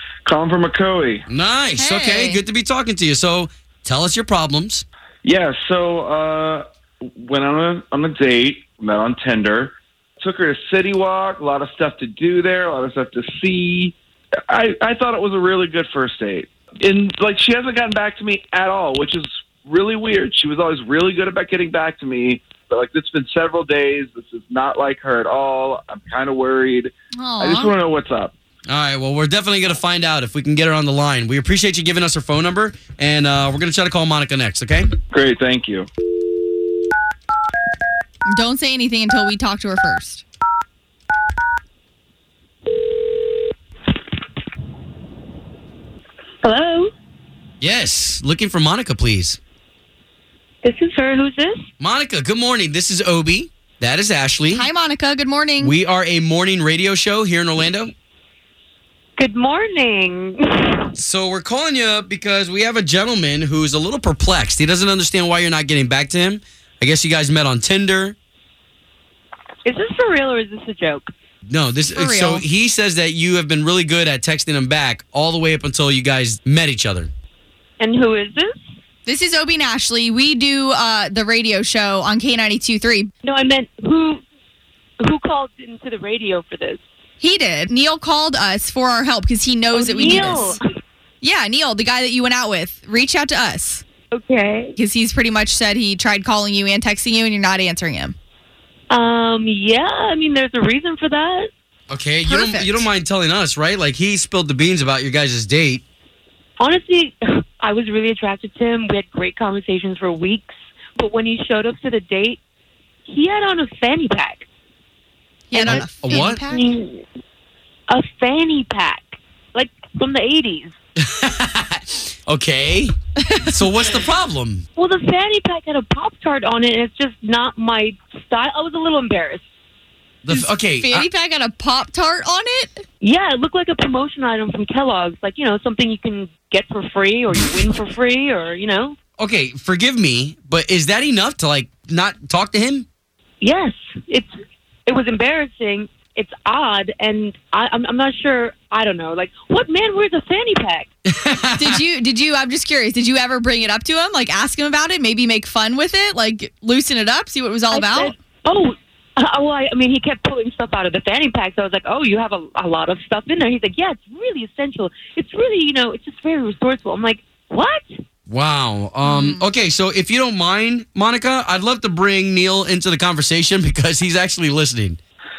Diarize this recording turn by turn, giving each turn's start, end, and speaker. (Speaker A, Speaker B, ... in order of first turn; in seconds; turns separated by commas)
Speaker A: 0.3-1.3, Speaker B: 1.3-4.8, Speaker C: 1.8-2.4, Speaker A: 5.2-13.9, Speaker A: 14.5-28.3, Speaker C: 27.2-27.8, Speaker B: 28.7-34.9, Speaker A: 35.1-35.9, Speaker C: 38.3-40.2, Speaker D: 46.4-46.9, Speaker B: 47.6-49.4, Speaker D: 50.6-51.6, Speaker B: 51.8-54.7, Speaker C: 54.5-55.8, Speaker B: 55.6-57.9, Speaker D: 59.2-60.9, Speaker B: 61.0-68.2, Speaker D: 69.7-71.1, Speaker B: 71.5-77.1, Speaker C: 71.9-72.5, Speaker D: 77.8-78.6, Speaker C: 79.1-83.1, Speaker D: 83.2-84.2, Speaker D: 85.0-86.8, Speaker C: 87.2-90.6, Speaker D: 89.7-90.6, Speaker C: 91.2-93.8, Speaker D: 94.1-94.8, Speaker C: 94.8-98.2, Speaker D: 98.9-101.5, Speaker B: 101.9-105.8, Speaker C: 102.2-102.9, Speaker D: 106.6-112.4, Speaker D: 113.1-114.5, Speaker C: 115.5-116.7, Speaker D: 115.5-117.0, Speaker B: 115.6-116.4, Speaker D: 117.9-120.7, Speaker B: 121.0-123.0, Speaker C: 123.3-123.8, Speaker B: 123.5-124.6, Speaker D: 124.8-129.4, Speaker B: 130.2-131.1, Speaker C: 130.3-132.8, Speaker D: 133.0-139.0, Speaker B: 139.2-142.9, Speaker D: 143.4-144.3, Speaker D: 144.9-150.9, Speaker B: 151.1-151.8, Speaker C: 151.6-158.1, Speaker D: 157.7-168.0, Speaker B: 168.3-175.0, Speaker C: 169.0-169.4